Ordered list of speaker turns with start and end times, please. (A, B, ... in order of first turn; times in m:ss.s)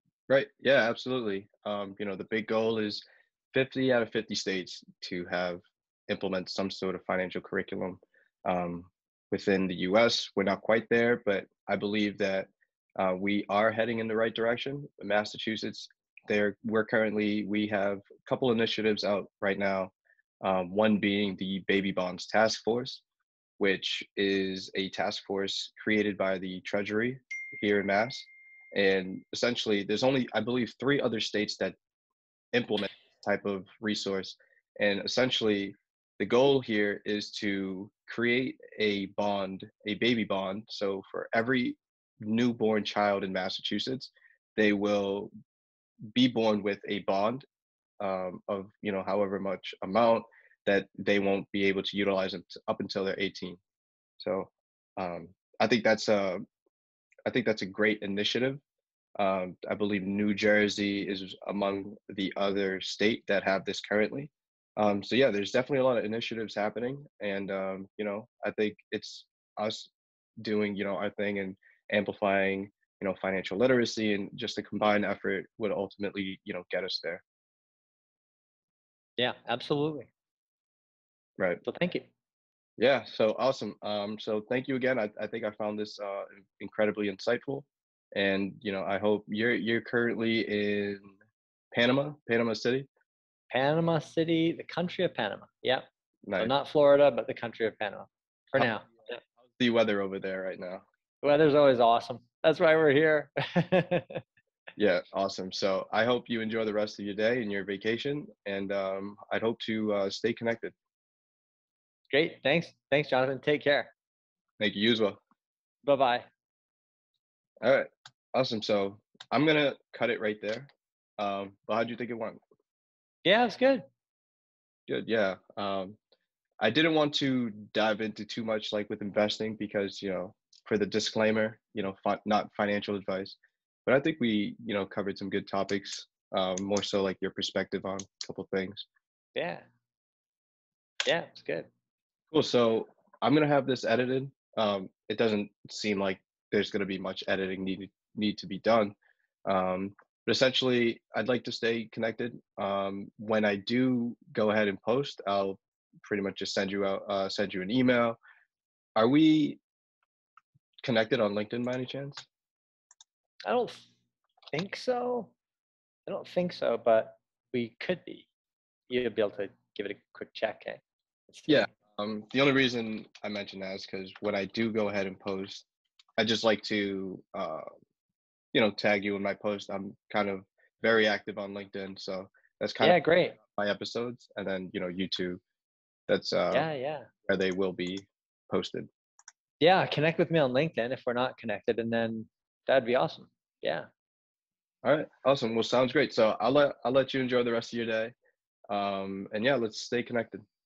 0:00.3-0:23.0 A
0:23.6-0:31.8 A
0:32.5-0:45.3 A
0:46.1-0:47.4 A
0:48.0-0:53.6 A
0:54.2-0:56.4 A
0:57.3-0:58.6 A
0:59.2-1:09.9 A
1:10.4-1:17.2 A
1:19.2-1:20.1 B
1:21.6-1:22.1 B
1:22.8-1:31.1 A
1:31.7-1:32.9 A
1:33.5-1:35.8 B
1:36.2-1:36.5 A
1:36.4-1:39.2 B
1:38.6-1:38.9 A
1:39.6-1:40.8 A
1:41.2-1:44.2 B
1:44.8-1:50.7 A
1:52.1-1:53.9 B
1:54.6-1:55.2 A
1:55.8-1:56.3 B
1:57.6-2:02.4 A
2:03.2-2:03.8 B
2:04.9-2:06.0 A
2:06.6-2:18.8 A
2:19.3-2:19.6 B
2:21.0-2:21.7 B
2:22.3-2:38.2 A
2:39.0-2:39.6 A
2:40.8-2:42.3 A
2:43.4-2:43.9 B
2:44.5-2:45.3 B
2:46.1-2:48.3 B
2:48.9-2:51.7 B
2:51.5-2:55.6 A
2:56.2-2:57.7 A
2:58.5-3:05.4 A
3:02.8-3:03.4 B
3:06.1-3:06.7 A
3:06.5-3:07.1 B
3:07.2-3:08.9 A
3:09.6-3:13.9 B
3:14.8-3:18.1 A
3:18.7-3:20.4 A